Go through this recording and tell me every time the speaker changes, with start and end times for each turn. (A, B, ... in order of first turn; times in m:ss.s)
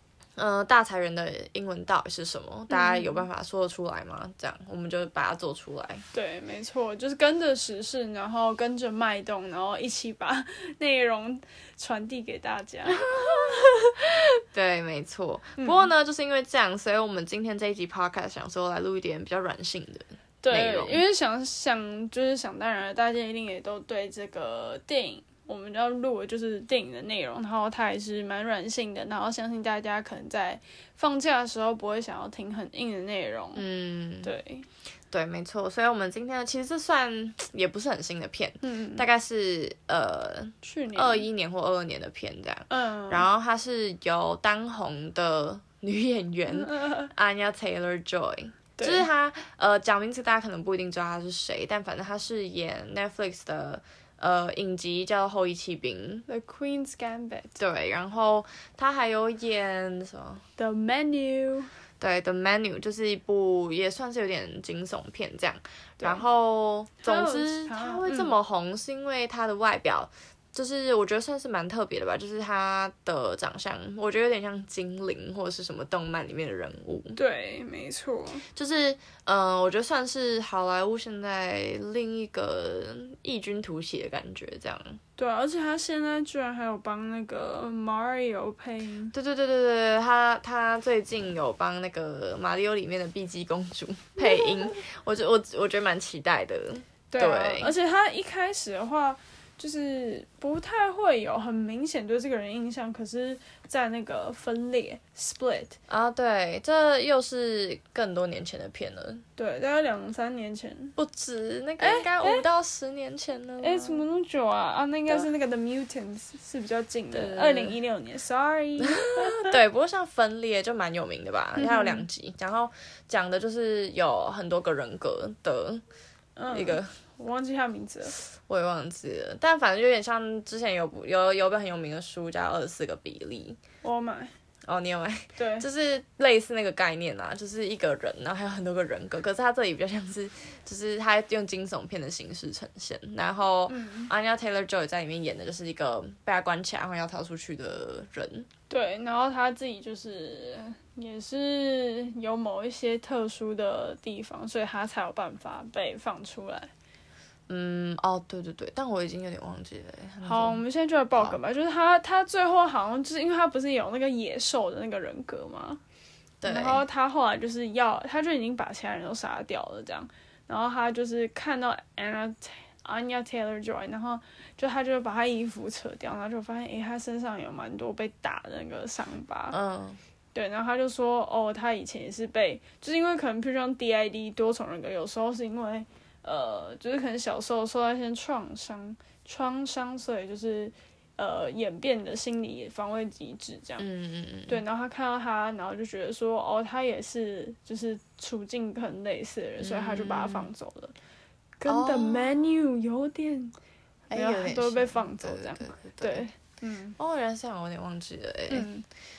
0:00.4-0:06.0 A
0:02.7-0:03.3 B
0:06.1-0:13.9 B
0:12.9-0:21.0 A
0:15.6-0:15.9 B
0:20.4-0:33.6 B
0:33.5-0:34.3 A
0:34.2-0:34.6 B
0:35.1-0:56.2 A
0:38.6-0:39.0 B
0:40.6-0:41.3 B
0:42.7-0:43.2 B
0:46.5-0:47.1 B
0:48.8-0:49.0 B
0:56.3-0:57.6 B
0:57.6-1:00.4 A
1:00.6-1:01.7 B
1:02.0-1:17.2 A
1:07.0-1:08.3 B
1:17.1-1:18.4 B
1:18.5-1:25.0 A
1:25.2-1:29.1 B
1:29.1-1:37.7 A
1:37.1-1:45.8 B
1:45.9-1:49.2 A
1:49.4-1:51.0 B
1:51.0-1:54.0 A
1:51.8-1:52.4 B
1:53.6-1:59.6 B
1:57.1-1:57.8 A
1:58.8-2:05.8 A
2:01.6-2:02.0 B
2:06.4-2:08.2 B
2:06.5-2:06.9 A
2:08.5-2:13.6 A
2:13.8-2:14.3 B
2:14.7-2:28.5 A
2:15.4-2:15.7 B
2:23.7-2:24.1 B
2:28.7-2:36.7 B
2:37.5-2:40.6 A
2:40.2-2:45.8 B
2:46.4-2:46.8 A
2:46.4-2:59.6 B
2:59.5-3:00.0 A
3:00.3-3:13.8 B
3:13.8-3:14.6 A
3:14.5-3:20.9 B
3:19.6-3:20.5 A
3:21.6-3:23.5 B
3:21.6-3:22.3 A
3:24.1-3:26.2 A
3:24.1-3:27.0 B
3:27.0-3:28.7 A
3:28.5-3:28.8 B